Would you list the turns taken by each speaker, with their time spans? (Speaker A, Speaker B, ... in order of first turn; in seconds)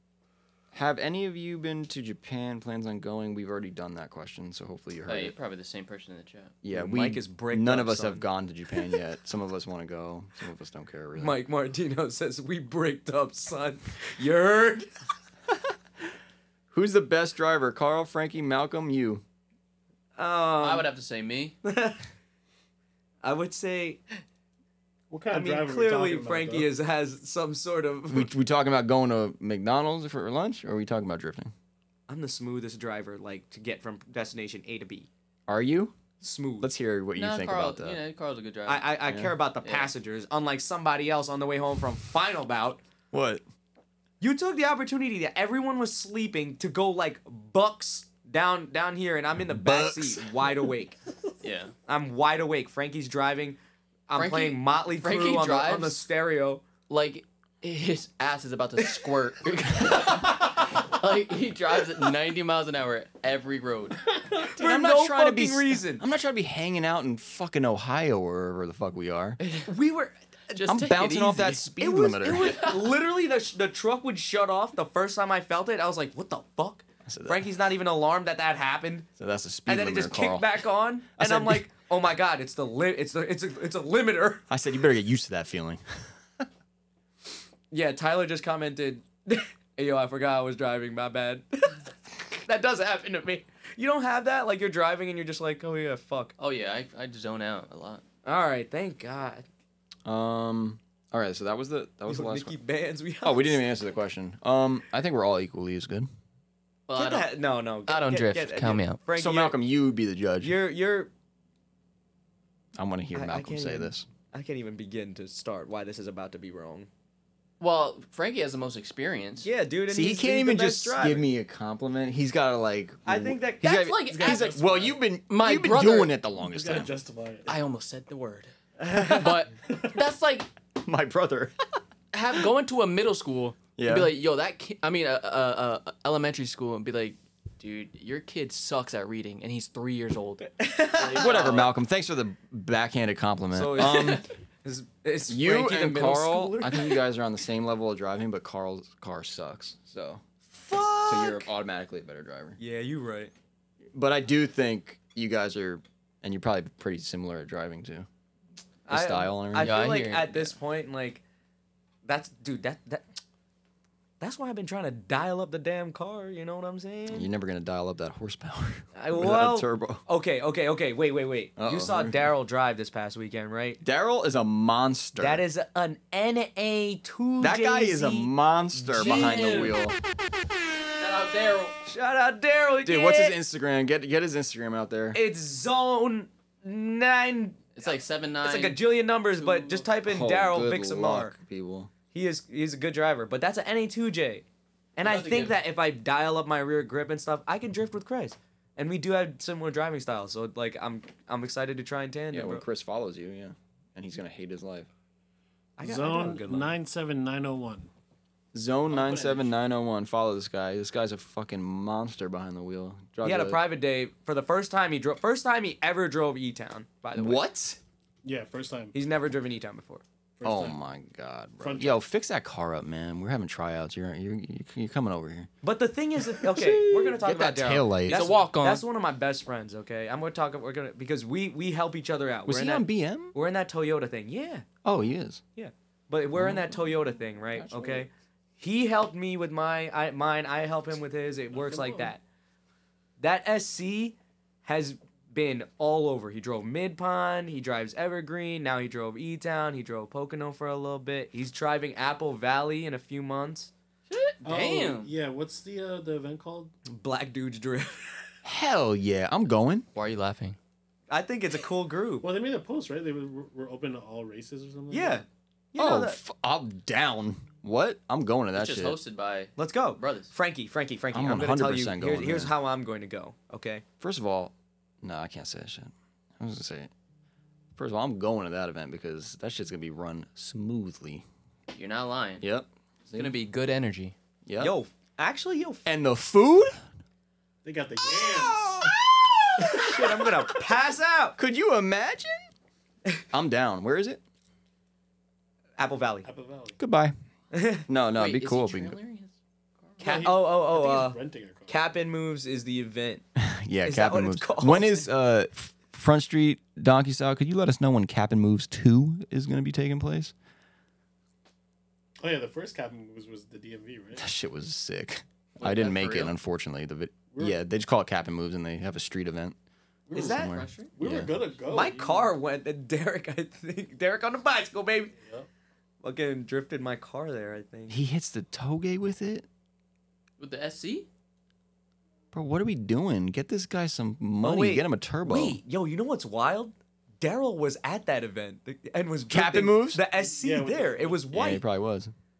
Speaker A: 0.7-5.3, 6.6-11.4, 16.7-19.2, 28.1-31.5, 35.5-36.0, 36.6-38.0, 39.1-39.3, 43.1-43.4, 49.5-50.5, 64.5-69.4, 70.7-72.6, 77.0-77.5, 79.2-80.6, 81.1-81.7, 84.5-86.4, 100.0-102.5, 103.2-106.1, 109.2-110.5, 112.8-114.1, 119.9-126.9, 130.8-131.5, 133.8-134.1, 141.1-144.2, 145.3-150.2, 151.0-152.6, 153.9-158.1, 158.9-159.8, 167.1-170.0, 171.6-172.3, 173.8-175.4, 177.4-180.0, 182.8-185.2, 190.1-191.9, 202.3-204.9, 208.5-213.6, 217.1-217.8, 220.4-225.5, 226.4-228.3, 232.4-233.3, 234.8-235.4, 236.3-236.9, 237.5-238.1, 258.4-259.9, 265.8-269.0, 271.1-272.5, 274.0-276.9, 277.8-281.2, 282.4-283.3, 284.4-284.7, 285.8-286.8, 288.0-290.3, 291.4-292.4, 293.3-294.2, 296.8-297.1, 297.9-299.0, 303.4-310.3, 314.1-319.6, 320.1-321.3, 327.9-329.5, 332.3-335.6, 339.3-340.0, 341.3-342.1
Speaker B: 5.1-6.5, 20.6-21.6, 37.1-39.0, 39.6-39.9, 51.4-51.7, 54.1-56.0, 56.9-64.1, 69.4-69.7, 70.5-71.7, 72.4-72.9, 96.4-98.0, 106.9-107.3, 107.9-109.0, 117.6-119.5, 123.6-124.6, 125.3-126.1, 127.5-130.5, 132.1-141.7, 159.6-160.6, 178.9-179.8, 181.0-181.8, 187.8-189.9, 195.0-195.5, 228.1-228.8, 254.1-255.1, 259.9-260.6, 268.5-270.3, 281.7-282.4, 283.1-284.1, 298.1-300.3, 315.6-316.3, 320.1-320.9, 330.4-331.1
Speaker C: 6.7-8.3, 11.2-14.9, 20.1-20.9, 21.6-22.0, 23.2-24.0, 25.3-28.3, 32.1-35.1, 36.2-36.7, 38.6-42.8, 44.2-51.0, 51.9-56.6, 64.4-66.0, 69.6-70.7, 71.8-79.1, 79.7-84.4, 87.7-96.3, 98.2-99.5, 102.1-103.7, 107.0-109.6, 110.4-111.1, 113.1-116.9, 119.4-121.2, 123.0-124.0, 140.6-141.4, 143.5-147.0, 150.5-151.5, 152.6-153.3, 158.9-161.2, 162.0-163.1, 164.2-167.3, 168.9-173.8, 175.2-179.7, 181.8-183.4, 185.1-191.3, 192.1-194.4, 195.0-202.6, 205.8-206.7, 213.2-217.4, 218.9-220.0, 225.6-234.6, 235.6-242.2, 243.2-253.7, 256.9-258.2, 261.1-262.3, 264.9-266.2, 269.6-273.8, 284.6-285.9, 289.6-291.4, 295.8-296.3, 297.5-297.9, 300.0-303.2, 303.8-305.1, 320.1-320.6, 321.7-325.1, 326.0-328.0, 334.4-341.6
Speaker D: 25.1-26.7, 124.1-125.0, 126.4-127.5, 205.8-207.9, 208.9-209.5, 218.2-218.9, 220.4-220.8, 221.6-222.0, 241.5-242.1, 254.4-256.7, 262.2-265.2, 287.6-288.9, 296.2-296.8, 300.0-301.8, 312.2-314.3, 317.3-317.6, 320.1-320.4, 320.9-322.3, 325.2-325.5, 340.1-341.2